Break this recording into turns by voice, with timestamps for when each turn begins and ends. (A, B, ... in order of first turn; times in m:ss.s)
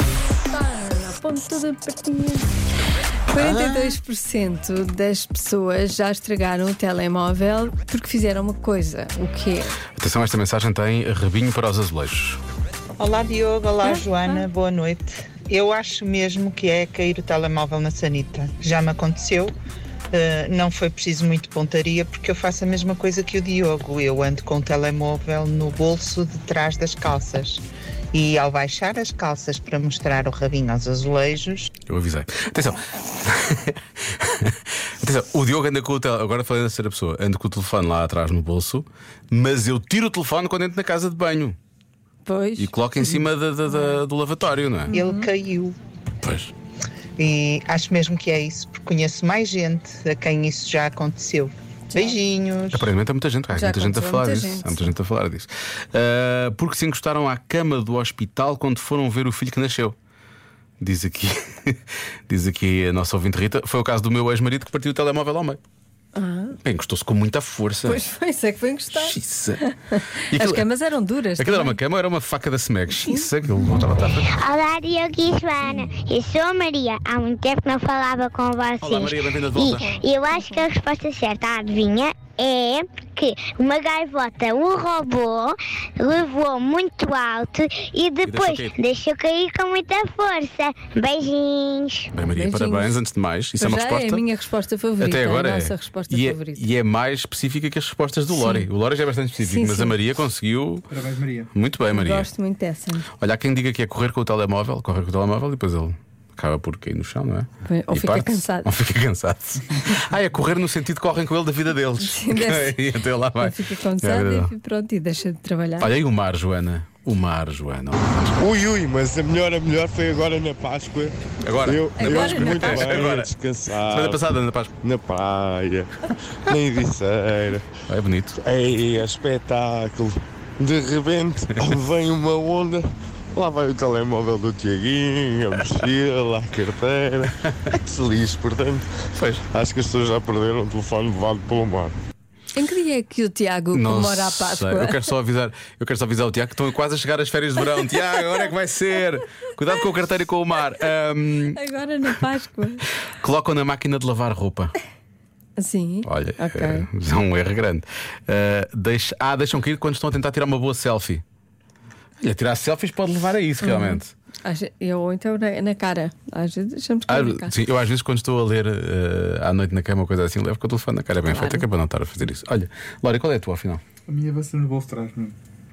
0:00.4-0:02.5 A
0:03.3-0:09.7 A
0:03.3-0:04.0 B
0:10.0-0:12.4 B
0:13.0-0:19.5 C
0:13.8-0:14.4 A
0:20.1-0:27.6 C
0:28.1-0:31.7 C
0:31.9-0:41.6 B
0:42.2-0:42.7 A
0:42.6-0:44.9 B
0:44.9-0:45.3 A
0:44.9-0:45.8 C
0:46.2-0:46.5 B
0:47.2-0:52.9 C
0:52.7-1:00.0 B
0:53.5-0:54.9 A
1:00.8-1:05.6 B
1:06.2-1:06.6 A
1:06.6-1:08.0 B
1:07.8-1:11.8 A
1:08.9-1:09.6 B
1:10.3-1:10.7 B
1:11.4-1:14.4 B
1:12.9-1:13.3 A
1:14.3-1:32.1 D
1:18.8-1:20.0 B
1:20.3-1:20.6 A
1:28.2-1:28.8 B
1:32.1-1:34.2 B
1:32.3-1:33.0 A
1:33.6-1:36.7 A
1:35.0-1:40.9 B
1:38.3-1:38.7 A
1:39.4-1:40.0 A
1:40.9-1:41.5 E
1:41.5-1:42.3 B
1:41.9-1:43.1 A
1:43.2-1:54.5 B
1:47.6-1:48.7 A
1:52.0-1:52.8 A
1:53.4-1:55.9 A
1:55.8-1:58.4 B
1:58.4-2:04.2 F
2:01.4-2:04.7 B
2:02.0-2:03.0 A
2:04.8-2:05.9 F
2:06.5-2:07.7 F
2:07.9-2:08.4 B
2:08.4-2:18.8 F
2:19.2-2:19.4 B
2:19.5-2:21.9 F
2:22.5-2:25.1 A
2:23.7-2:32.1 B
2:31.5-2:32.8 A
2:33.2-2:34.7 B
2:35.6-2:36.9 A
2:36.0-2:41.2 B
2:42.2-2:44.1 B
2:43.6-2:47.5 A
2:47.1-2:53.8 B
2:51.3-2:51.7 A
2:54.1-2:55.4 E